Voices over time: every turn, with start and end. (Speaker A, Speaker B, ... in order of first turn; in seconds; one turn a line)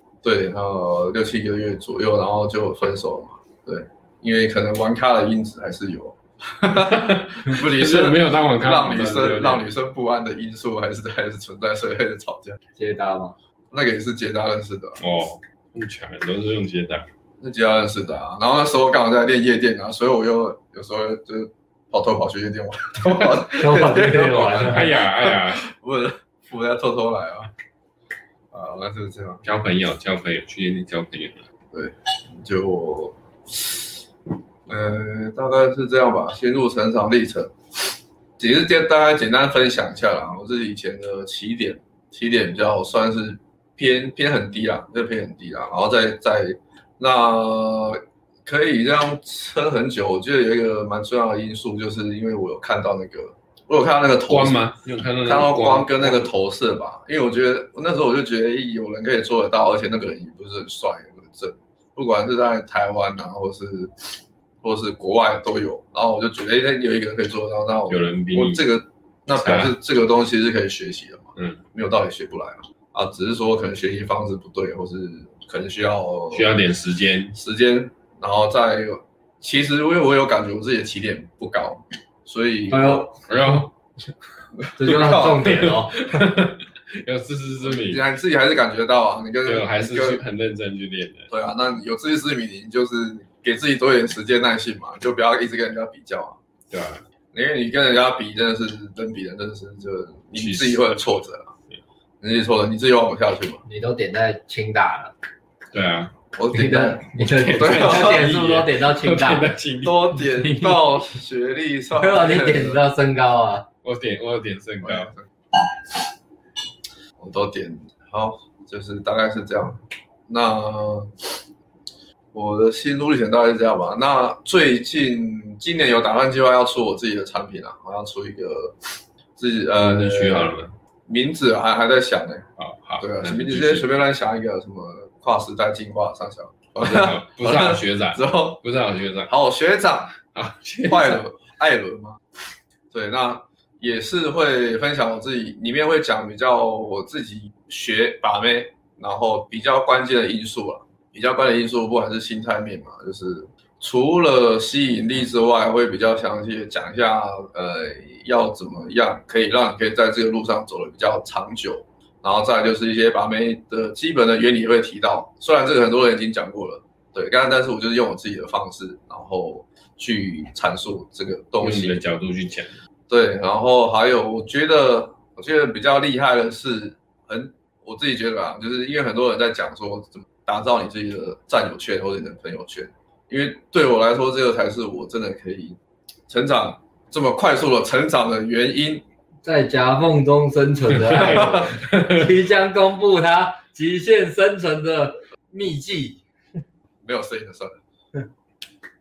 Speaker A: 0.2-12.6
Speaker B: 6.8-9.7
Speaker C: 12.8-13.3
Speaker A: 13.7-15.0
Speaker B: 15.0-17.1
Speaker A: 17.4-27.5
Speaker C: 23.5-24.9
Speaker B: 24.5-25.6
Speaker A: 28.5-29.4
Speaker B: 29.4-31.4
Speaker A: 31.7-33.9
Speaker A: 34.7-37.5
Speaker A: 38.4-54.6
Speaker B: 54.3-56.3
Speaker A: 55.2-63.9
Speaker A: 64.6-76.5
Speaker B: 67.9-68.7
Speaker B: 69.4-69.7
Speaker B: 76.3-77.3
Speaker A: 77.3-83.1
Speaker C: 82.7-83.2
Speaker B: 83.3-83.7
Speaker A: 84.6-85.7
Speaker C: 84.8-86.0
Speaker B: 85.4-88.0
Speaker A: 87.6-90.2
Speaker B: 89.4-91.3
Speaker A: 91.3-96.4
Speaker B: 96.7-97.0
Speaker A: 97.3-101.5
Speaker B: 100.3-101.0
Speaker A: 102.2-103.6
Speaker C: 103.7-105.1
Speaker B: 105.7-106.1
Speaker A: 106.3-108.3
Speaker C: 106.5-109.5
Speaker B: 107.2-110.2
Speaker A: 109.8-112.8
Speaker C: 110.4-110.8
Speaker C: 111.9-113.7
Speaker B: 113.8-115.1
Speaker A: 114.8-115.3
Speaker A: 117.2-121.1
Speaker A: 122.3-128.8
Speaker A: 129.3-132.5
Speaker B: 129.8-130.7
Speaker B: 132.6-133.9
Speaker A: 133.0-138.6
Speaker B: 136.8-139.3
Speaker A: 139.3-140.2
Speaker B: 140.3-141.2
Speaker A: 140.8-142.2
Speaker A: 142.9-172.0
Speaker B: 171.6-172.8
Speaker A: 173.1-185.8
Speaker A: 186.3-189.0
Speaker C: 189.4-196.2
Speaker B: 190.9-192.3
Speaker A: 191.3-191.7
Speaker A: 197.0-197.8